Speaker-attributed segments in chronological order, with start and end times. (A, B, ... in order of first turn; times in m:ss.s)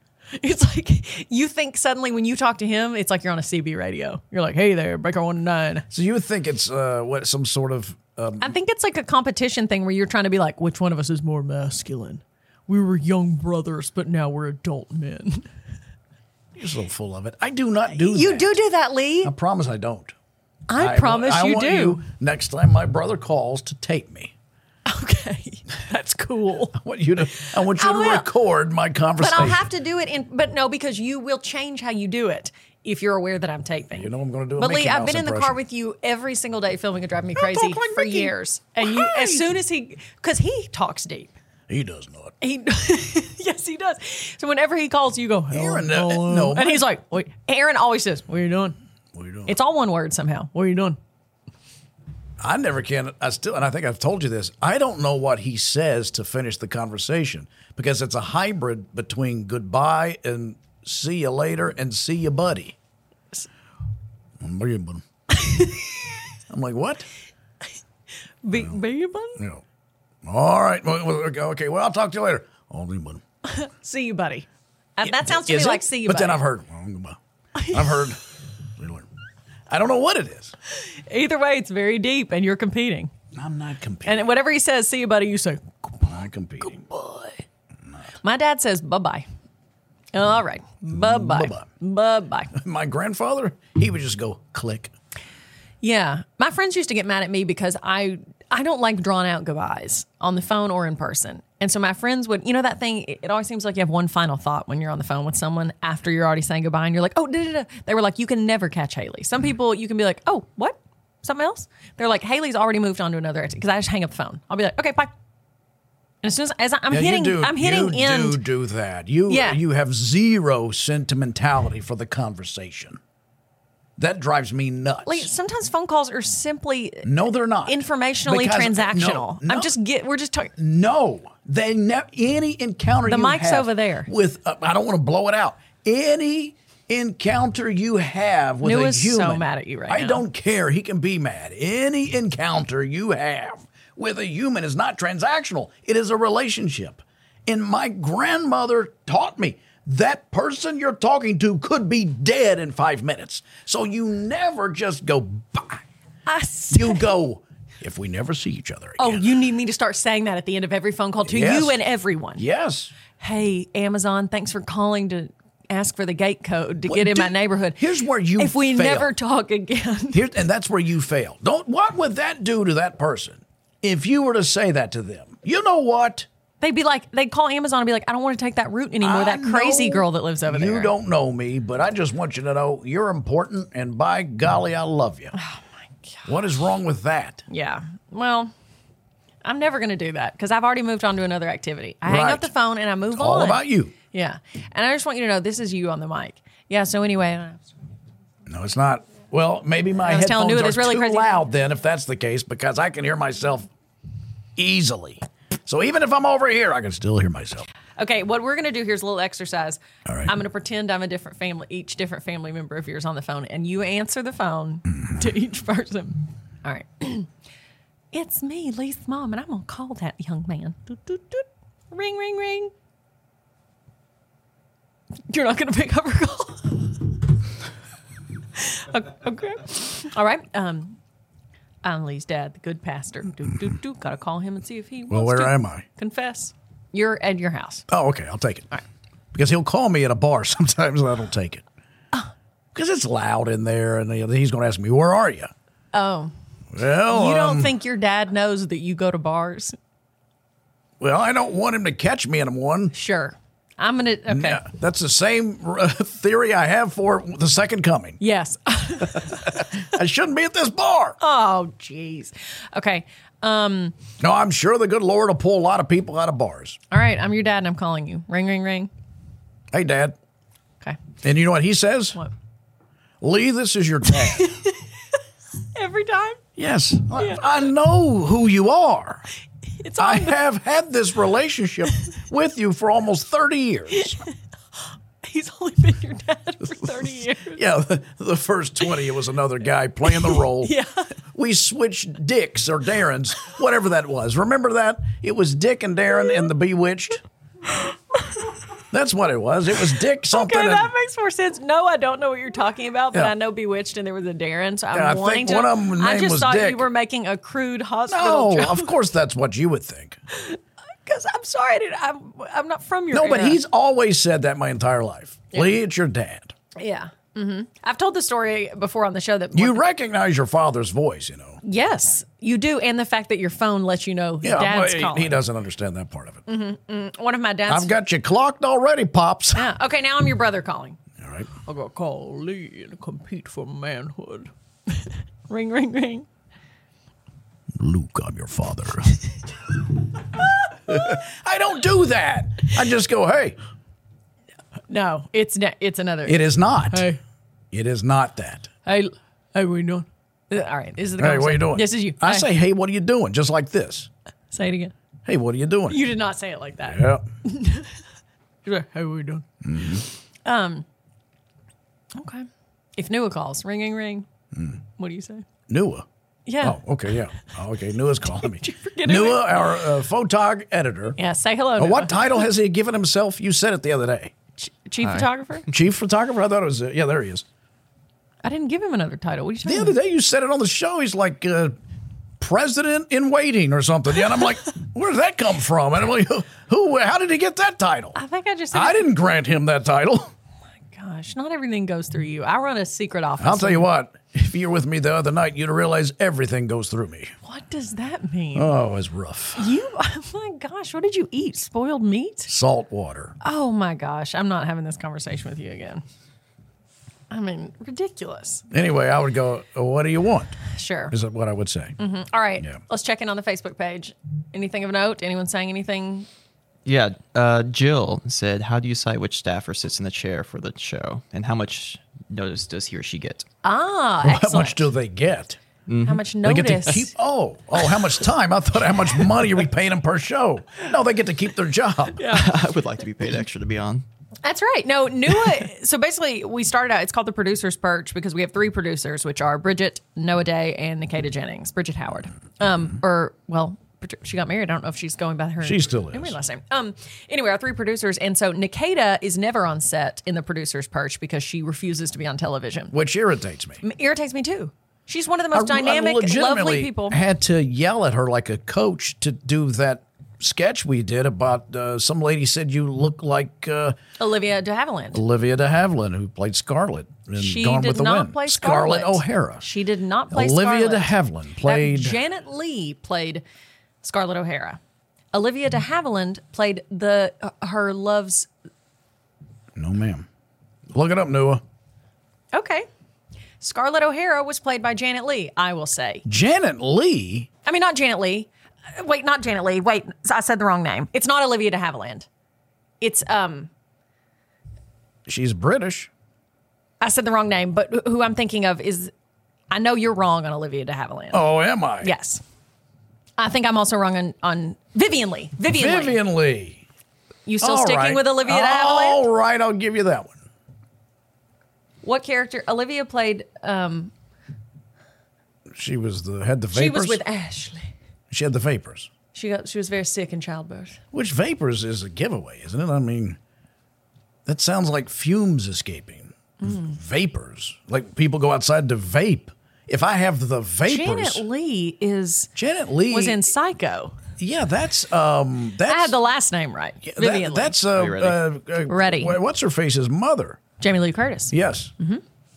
0:00.3-0:05.9 A
0:05.9-0:08.6 B
0:08.4-0:15.5 A
0:16.6-0:18.6 B
0:17.9-0:19.3 A
0:19.2-0:20.1 B
0:20.7-0:22.0 A
0:20.8-0:24.3 B
0:24.9-0:26.8 A
0:26.7-0:29.7 B
0:27.4-0:28.3 A
0:29.2-0:41.3 A
0:33.9-0:35.6 B
0:37.4-0:39.5 B
0:41.7-0:42.4 B
0:42.4-0:48.8 A
0:45.5-0:46.9 B
0:49.1-0:49.6 B
0:49.5-0:51.0 A
0:52.4-1:02.8 B
1:04.4-1:05.0 B
1:05.4-1:05.9 A
1:06.5-1:07.1 B
1:08.4-1:09.4 A
1:08.5-1:08.8 B
1:09.4-1:09.6 B
1:10.2-1:13.2 B
1:13.4-1:16.4 A
1:15.0-1:18.2 B
1:17.6-1:18.0 A
1:18.8-1:19.1 B
1:19.7-1:20.5 B
1:20.7-1:23.1 A
1:23.3-1:24.3 B
1:24.0-1:26.0 A
1:26.0-1:26.9 B
1:26.6-1:27.4 A
1:28.2-1:29.2 A
1:30.1-1:32.6 A
1:30.9-1:31.7 B
1:32.5-1:34.9 B
1:35.8-1:55.1 A
1:56.2-1:58.4 A
1:56.9-2:03.0 B
1:59.3-1:59.6 A
2:04.0-2:05.3 B
2:05.0-2:07.1 A
2:07.0-2:09.7 B
2:07.6-2:10.5 A
2:10.6-2:35.8 B
2:13.1-2:14.1 A
2:18.6-2:20.2 A
2:36.3-2:37.1 A
2:36.7-2:39.3 B
2:39.0-2:42.4 A
2:41.2-2:41.8 B
2:42.4-2:42.9 B
2:43.1-2:47.8 A
2:46.9-2:49.1 B
2:48.4-2:50.3 A
2:50.1-2:56.3 B
2:56.6-3:00.9 A
2:59.0-3:05.3 B
3:05.3-3:06.3 A
3:06.3-3:07.4 B
3:07.5-3:08.5 A
3:09.4-3:17.8 A
3:12.0-3:12.5 B
3:13.1-3:13.9 B
3:18.5-3:23.7 B
3:20.0-3:21.3 A
3:24.6-3:27.7 B
3:28.0-3:37.3 A
3:30.1-3:30.3 B
3:38.1-3:42.7 A
3:45.3-3:47.3 A
3:48.6-3:51.0 A
3:51.8-3:57.8 A
3:55.1-3:55.8 B
3:57.9-3:58.7 B
3:59.3-4:01.6 B
4:02.7-4:05.5 B
4:05.9-4:06.3 A
4:06.7-4:07.7 B
4:07.1-4:09.8 A
4:11.0-4:12.9 B
4:12.9-4:14.6 A
4:14.3-4:18.2 B
4:18.2-4:19.7 A
4:19.0-4:21.2 B
4:21.2-4:24.0 A
4:24.2-4:26.8 B
4:26.9-4:28.9 A
4:29.7-4:30.2 B
4:31.2-4:32.2 B
4:33.2-4:34.5 B
4:34.3-4:34.9 A
4:35.7-4:36.4 A
4:36.6-4:39.3 B
4:37.2-4:37.4 A
4:39.8-4:40.4 A
4:40.0-4:44.2 B
4:43.9-4:44.3 A
4:45.2-4:47.6 A
4:46.8-4:50.7 B
4:50.0-4:51.1 A
4:51.3-4:57.2 B
4:57.8-4:58.5 A
4:58.9-5:00.9 B
5:00.3-5:08.9 A
5:04.9-5:06.9 B
5:08.1-5:10.2 B
5:10.3-5:13.6 A
5:13.1-5:16.5 B
5:16.8-5:19.8 A
5:19.5-5:21.6 B
5:21.6-5:25.4 A
5:24.4-5:26.4 B
5:26.5-5:27.9 A
5:27.7-5:29.7 B
5:29.6-5:31.0 A
5:31.2-5:31.5 B
5:31.6-5:36.3 A
5:37.8-5:39.3 B
5:40.2-5:43.6 B
5:44.9-5:47.2 A
5:46.3-5:47.1 B
5:47.7-5:48.7 B
5:48.9-5:52.5 A
5:51.2-5:54.1 B
5:54.5-5:54.9 A
5:55.2-5:56.0 B
5:55.9-5:58.0 A
5:56.9-5:57.2 B
5:58.6-6:00.9 A
5:59.6-6:00.0 B
6:02.2-6:04.3 A
6:04.5-6:04.8 B
6:05.0-6:05.5 A
6:05.7-6:06.1 B
6:06.5-6:06.8 A
6:06.6-6:11.2 B
6:08.2-6:09.8 A
6:11.2-6:12.4 A
6:11.8-6:14.3 B
6:14.6-6:15.7 A
6:15.7-6:17.4 B
6:18.4-6:20.0 A
6:19.6-6:21.7 B
6:22.4-6:28.2 B
6:28.2-6:29.0 A
6:28.7-6:30.3 B
6:30.9-6:33.9 A
6:33.4-6:37.3 B
6:37.4-6:38.7 A
6:38.6-6:39.7 B
6:39.6-6:42.5 A
6:42.5-6:43.4 B
6:43.4-6:46.0 A
6:47.3-6:48.6 A
6:48.7-6:50.6 B
6:50.7-6:51.2 A
6:51.1-6:52.0 B
6:52.0-6:56.3 A
6:56.8-7:03.5 C
7:03.6-7:04.8 A
7:04.2-7:05.6 B
7:05.9-7:06.2 C
7:06.0-7:07.1 A
7:06.4-7:12.2 B
7:12.2-7:12.5 A
7:12.2-7:14.0 C
7:14.4-7:32.9 A
7:25.6-7:26.4 B
7:32.9-7:33.8 B
7:33.8-7:37.2 A
7:35.5-7:44.0 B
7:44.2-7:45.2 A
7:45.1-7:49.7 B
7:47.4-7:53.4 A
7:50.3-7:52.2 B
7:54.0-7:54.8 A
7:55.3-7:58.5 A
7:59.8-8:00.3 B
8:00.9-8:01.6 B
8:02.5-8:02.9 A
8:03.6-8:06.2 A
8:06.3-8:07.5 B
8:07.6-8:12.3 A
8:13.0-8:13.7 A
8:15.3-8:16.1 B
8:17.0-8:19.1 A
8:19.7-8:21.5 A
8:21.3-8:22.1 B
8:22.0-8:22.4 A
8:23.4-8:26.2 A
8:25.7-8:26.8 B
8:27.5-8:29.3 A
8:27.6-8:30.4 B
8:32.0-8:34.1 A
8:35.7-8:37.2 B
8:36.7-8:37.9 A
8:38.3-8:39.1 B
8:39.3-8:41.0 A
8:41.1-8:43.4 B
8:44.5-8:51.4 B
8:46.6-8:47.0 A
8:50.9-8:52.5 A
8:52.6-8:53.5 B
8:53.1-8:54.2 A
8:54.4-8:56.2 B
8:55.9-8:57.8 A
8:57.0-9:00.6 B
8:57.9-8:58.4 C
8:58.9-8:59.4 A
9:00.8-9:02.2 A
9:01.5-9:01.9 B